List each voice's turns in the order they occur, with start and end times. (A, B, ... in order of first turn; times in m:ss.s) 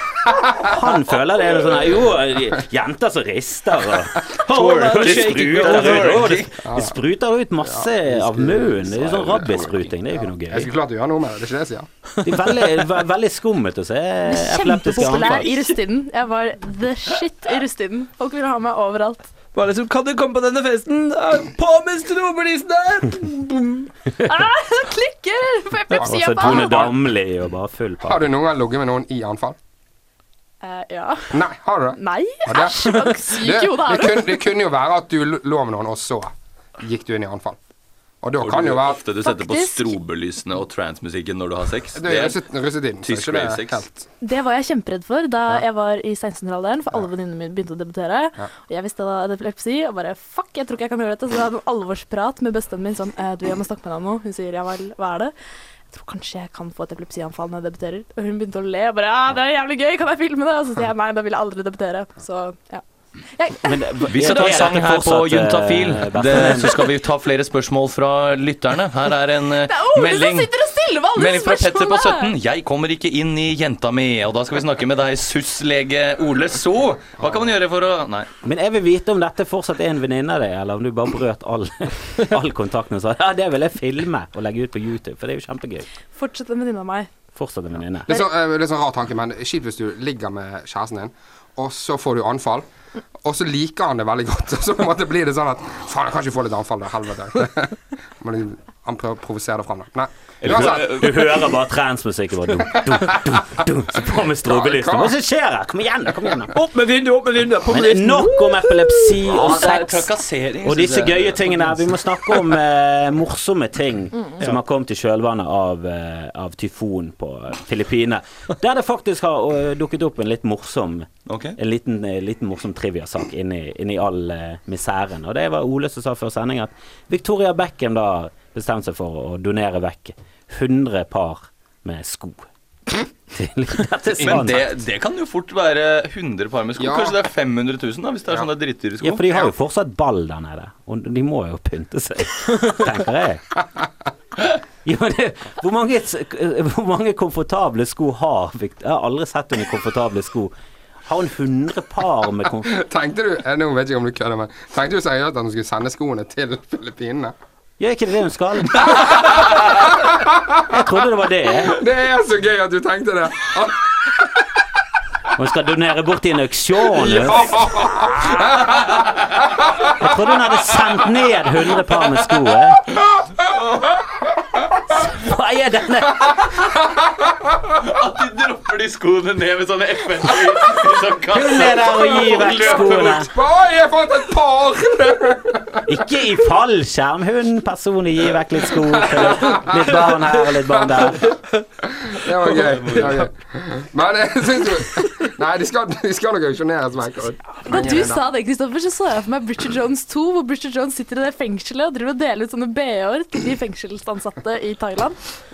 0:00.3-0:10.7 A
0:04.4-0:06.3 B
0:04.5-0:06.6 C
0:06.6-0:07.0 D
0:07.6-0:09.4 D
0:09.0-0:09.9 C
0:10.4-0:11.9 D
0:12.2-0:15.5 A
0:14.3-0:19.2 E
0:19.6-0:23.9 B
0:24.2-0:26.9 E
0:26.0-0:28.3 A
0:26.0-0:27.0 D
0:28.0-0:29.6 D
0:30.6-0:31.4 E
0:31.3-0:37.6 D
0:32.0-0:34.4 E
0:38.2-0:39.0 D
0:38.4-0:42.4 C
0:39.2-0:39.9 E
0:42.0-0:44.0 D
0:43.0-0:43.9 C
0:44.2-0:55.3 E
0:55.9-1:02.8 E
1:03.3-1:04.1 E
1:03.6-1:06.9 A
1:04.1-1:10.5 C
1:09.6-1:12.3 E
1:11.2-1:18.3 C
1:18.4-1:25.9 A
1:26.2-1:27.1 E
1:27.3-1:28.2 A
1:28.1-1:32.7 D
1:33.2-1:41.4 D
1:40.4-1:41.3 C
1:40.5-1:46.6 A
1:42.8-1:43.2 D
1:44.4-1:45.2 D
1:46.5-1:48.7 B
1:47.7-1:50.1 A
1:49.2-1:51.8 C
1:50.6-2:14.7 A
2:01.3-2:01.6 C
2:14.2-2:19.2 C
2:16.8-2:17.2 D
2:19.0-2:23.4 A
2:24.8-2:30.5 A
2:31.0-2:32.7 A
2:32.7-2:37.3 D
2:37.8-2:39.5 A
2:38.8-2:40.6 D
2:40.7-2:41.8 A
2:41.6-2:44.2 D
2:45.4-2:47.7 A
2:46.9-2:48.9 D
2:48.7-2:49.1 C
2:50.0-2:52.8 A
2:54.9-2:56.5 A
2:57.8-3:03.2 C
3:01.3-3:03.3 A
3:01.7-3:05.9 D
3:05.9-3:11.3 A
3:09.0-3:10.1 D
3:10.7-3:11.0 D
3:11.9-3:18.3 D
3:12.4-3:13.2 C
3:17.6-3:25.2 E